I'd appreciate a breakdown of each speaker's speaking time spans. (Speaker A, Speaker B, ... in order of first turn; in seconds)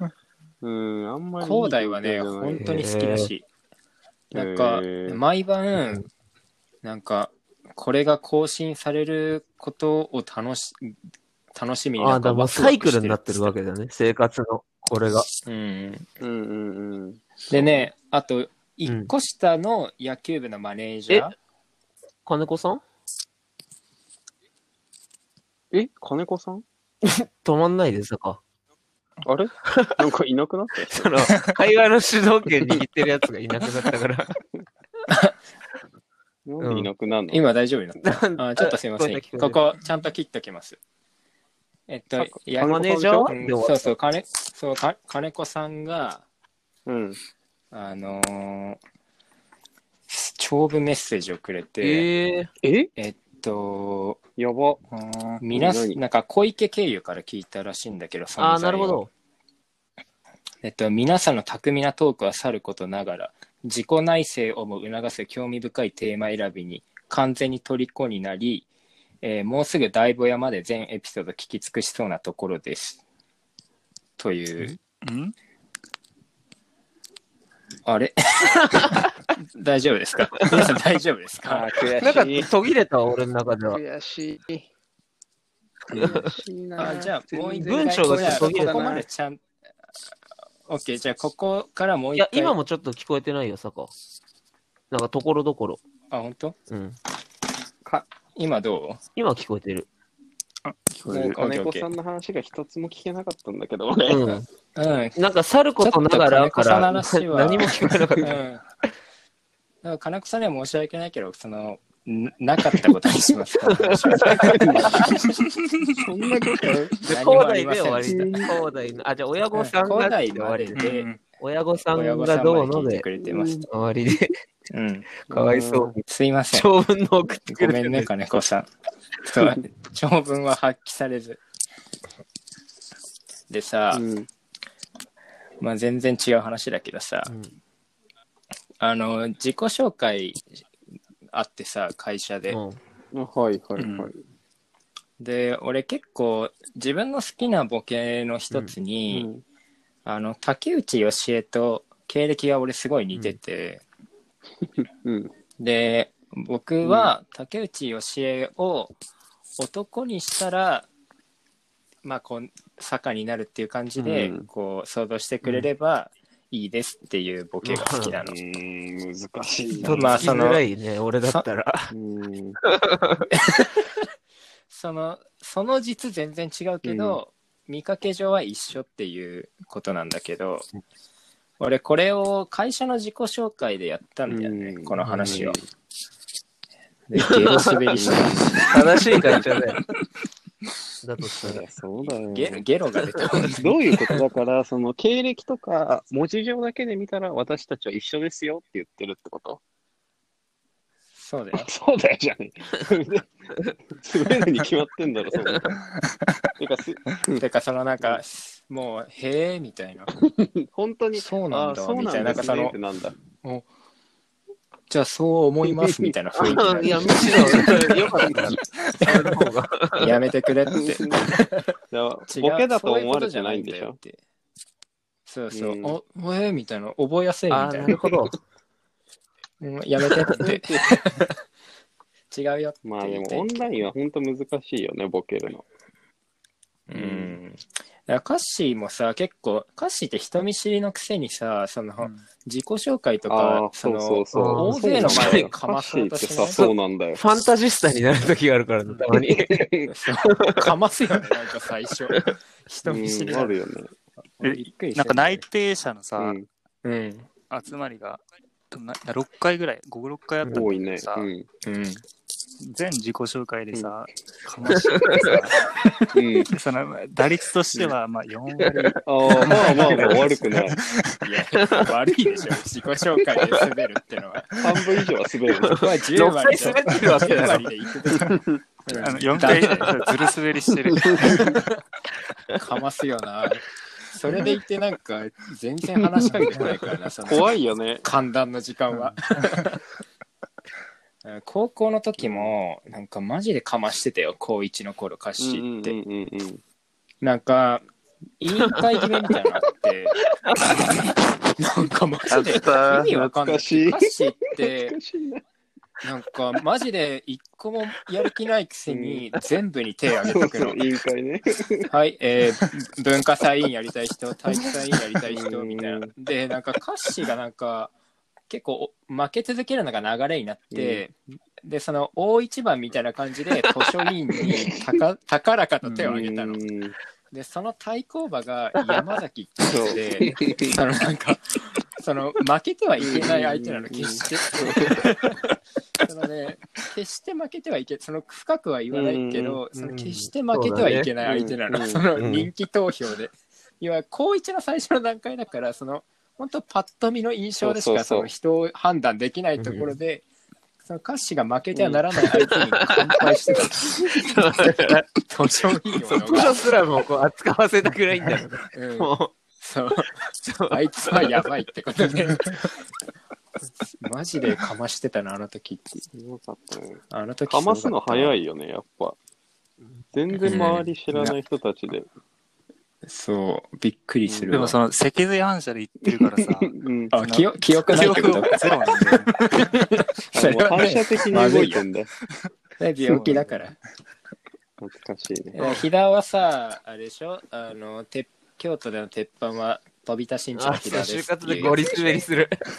Speaker A: 0.6-2.8, 4.3-5.2, 16.2-17.9, 25.7-26.6, 29.2-31.3, 36.5-37.4, 42.2-43.3, 46.9-47.2, 52.6-52.9, 54.4-54.8, 55.5-56.0, 81.5-82.5, 83.7-84.7, 85.9-89.0, 101.1-104.4, 114.4-115.1, 116.0-117.0, 118.0-118.5, 123.2-123.7, 125.3-125.9, 133.9-134.3, 143.1-144.2, 149.1-149.4, 154.6-155.3, 156.8-157.1, 164.0-164.4, 168.2-170.4, 171.9-172.6, 176.8-177.2, 184.3-185.6, 187.9-188.8, 191.4-192.6, 193.6-199.6, 201.5-205.8, 206.6-207.4, 210.2-213.2, 215.7-218.5, 220.9-221.2, 221.9-224.0, 225.5-226.0, 230.3-231.0, 232.8-235.6, 236.9-237.4, 243.3-247.2, 249.2-249.9, 252.8-253.9, 256.2-256.5, 260.5-261.5, 266.1-266.5, 269.0-270.8, 274.6-275.9, 278.1-278.4, 280.9-281.4, 285.8-288.1, 292.2-292.5, 295.4-296.6, 302.3-305.4, 308.9-309.3, 310.3-311.9, 315.3-316.1, 320.7-321.0, 325.8-326.9, 329.7-330.8, 333.0-335.0, 338.9-339.6, 341.2-342.0, 347.6-348.3, 351.7-352.0, 366.1-369.2, 370.1-372.1, 374.3-374.6, 376.2-377.1, 377.9-378.4, 380.3-382.1, 384.8-385.6
Speaker B: 1.4-3.4, 4.3-6.0, 6.8-10.9, 11.6-13.5, 15.4-16.1, 17.5-21.3, 37.3-40.8, 41.9-46.2, 47.7-48.8, 50.1-52.1, 53.0-54.2, 55.4-59.0, 60.6-68.7, 69.2-73.0, 74.2-74.8, 77.8-81.7, 86.8-89.4, 90.7-92.5, 96.1-96.5, 98.3-99.0, 101.3-101.9, 104.8-105.2, 105.8-108.6, 109.8-115.0, 117.1-118.4, 119.5-121.1, 121.8-123.5, 124.7-125.1, 126.1-126.7, 127.5-128.7, 129.2-131.4, 133.5-134.0, 135.6-137.3, 138.8-140.4, 141.3-142.6, 145.2-149.3, 150.0-153.8, 155.6-158.9, 159.6-160.9, 162.0-168.3, 169.8-170.6, 173.3-173.9, 174.7-180.7, 181.6-185.6, 187.1-188.9, 192.3-193.8, 201.1-201.7, 207.4-210.1, 211.1-212.8, 214.9-219.3, 220.0-221.6, 222.3-224.2, 225.3-228.0, 229.6-231.3, 232.3-233.7, 236.9-246.7, 249.9-253.5, 254.4-255.4, 256.8-257.3, 261.6-262.0, 271.2-274.8, 275.7-280.0, 281.2-281.8, 282.5-289.8, 291.2-295.9, 297.2-297.8, 298.4-304.9, 306.0-310.8, 311.9-317.9, 318.5-326.6, 327.3-335.4, 336.0-350.2, 350.8-353.8, 355.2-356.7, 358.7-360.1, 360.7-362.8, 363.8-366.0, 367.1-368.4, 370.4-371.3, 373.0-374.8, 377.1-381.8, 382.8-383.7, 385.5-391.9
Speaker C: 2.6-3.3, 12.0-15.3, 18.9-19.1, 22.2-22.8, 27.0-28.4, 29.6-30.0, 30.8-34.3, 36.6-36.9, 38.0-39.6, 42.6-43.9, 51.8-52.5, 58.4-59.1, 82.0-83.8, 86.0-86.3, 87.6-89.0, 92.1-93.9, 94.9-95.8, 96.7-97.0, 99.2-99.9, 104.1-104.5, 105.2-108.4, 113.6-114.9, 117.0-120.8, 121.4-123.1, 123.7-124.3, 125.3-128.1, 137.3-137.5, 142.5-142.8, 165.4-165.7, 167.6-168.2, 169.8-171.9, 172.7-173.1, 185.0-185.4, 187.2-187.7, 188.7-189.8, 191.0-191.6, 216.3-220.1, 227.5-228.4, 244.3-245.5, 246.5-249.6, 250.2-250.6, 260.4-260.7, 269.6-270.1, 275.6-277.6, 279.4-280.1, 300.3-300.8, 339.8-341.1, 342.2-342.5, 349.6-349.9, 352.5-355.0, 356.2-359.3, 360.4-361.3, 390.5-392.5
Speaker D: 54.9-55.4, 75.0-75.3, 100.7-101.4, 120.7-121.2, 143.8-144.1, 206.0-206.3, 254.4-256.4, 257.5-261.3, 262.6-265.6, 266.5-271.0, 278.9-281.6, 374.5-379.3, 383.1-383.6